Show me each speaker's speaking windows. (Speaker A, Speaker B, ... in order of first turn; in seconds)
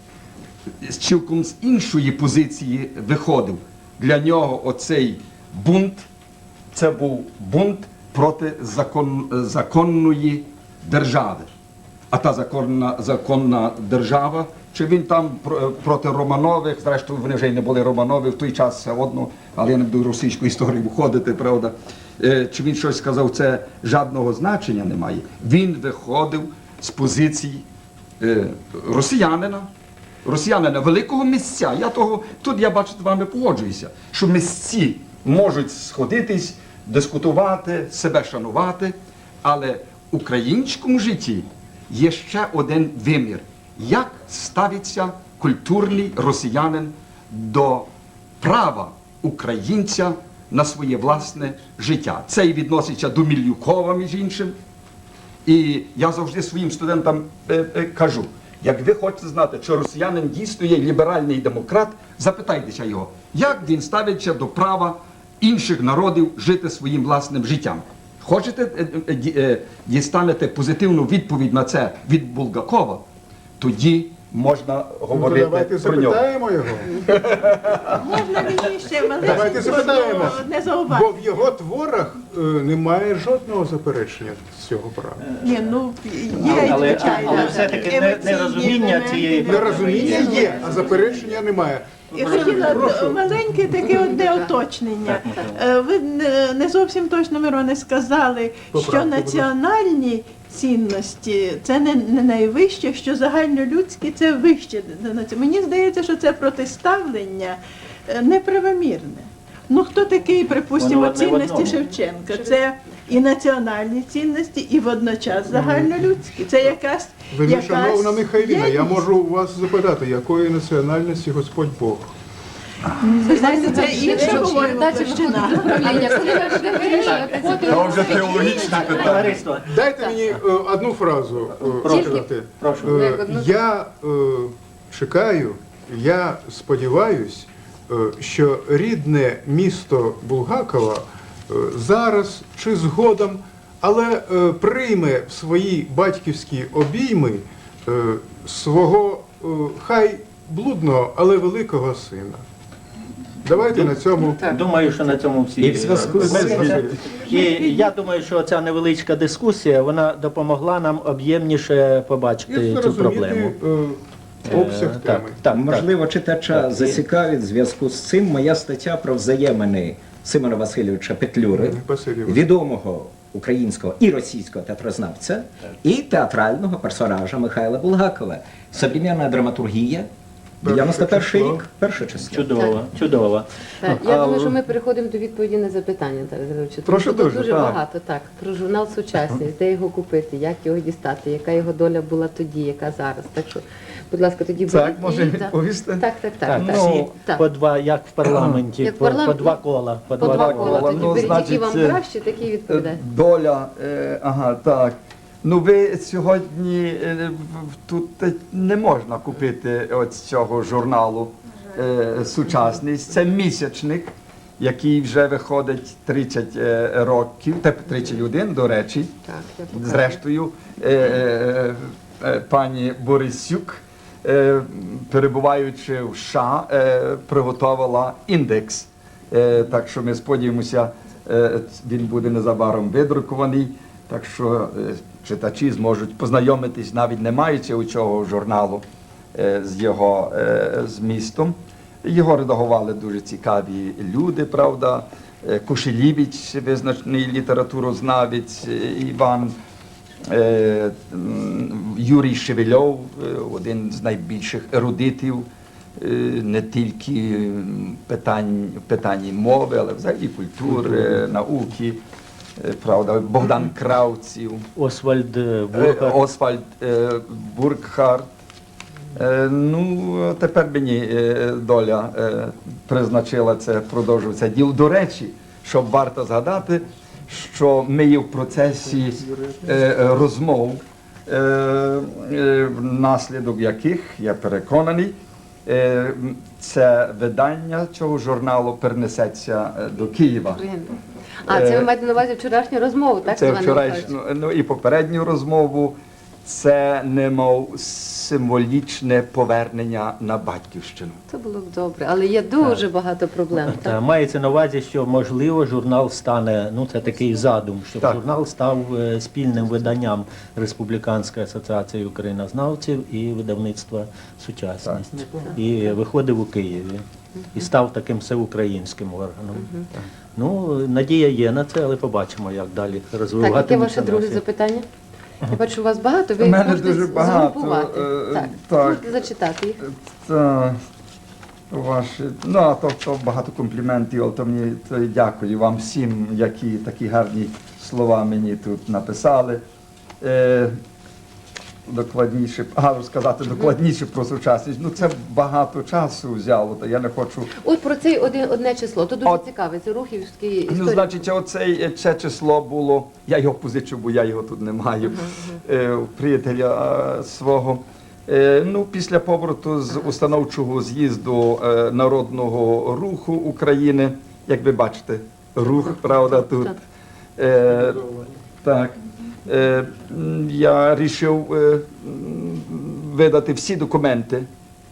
Speaker A: 0.8-6.1, 6.7-11.5, 12.1-27.7, 28.2-29.7, 30.2-47.9, 48.4-54.5, 55.5-73.0, 73.6-76.2, 77.0-77.9, 127.6-129.4, 156.1-157.0, 183.9-184.6, 186.9-187.8, 194.6-197.1, 198.2-198.6, 200.2-202.0, 202.7-219.2, 219.7-249.6, 250.3-262.0, 262.6-264.7, 265.7-268.3, 269.1-285.1, 285.7-290.6, 291.5-291.9, 293.3-301.2, 326.4-329.3, 329.8-330.8, 331.7-339.6, 340.2-340.7, 341.9-347.5, 350.7-366.8, 367.4-374.5
Speaker B: 75.1-77.1, 79.2-85.2, 89.4-93.3, 98.7-99.5, 115.5-115.9, 117.3-122.1, 129.7-152.4, 153.4-154.5, 156.0-157.0, 162.5-165.4, 171.5-172.5, 180.6-181.6
Speaker C: 78.0-81.3, 85.4-90.7, 92.1-119.0, 123.0-127.4, 157.3-157.8
Speaker D: 79.3-79.6, 85.2-85.6, 86.3-91.3, 92.1-93.0, 95.1-95.6, 110.7-111.8, 126.5-129.7, 131.7-133.0, 153.7-163.5, 164.4-165.9, 166.5-167.0, 182.2-183.5, 196.5-201.4, 264.8-266.2, 303.7-319.7, 320.4-324.4
Speaker E: 90.1-91.1, 123.2-129.3, 129.9-130.2, 131.7-132.3, 132.9-133.6, 183.8-197.4, 198.8-199.7, 200.2-203.0, 219.3-220.2, 290.5-294.1, 301.3-304.0, 319.6-319.8, 323.4-324.9, 325.4-329.8, 347.6-351.1
Speaker F: 155.6-156.5, 165.5-180.1, 180.6-182.5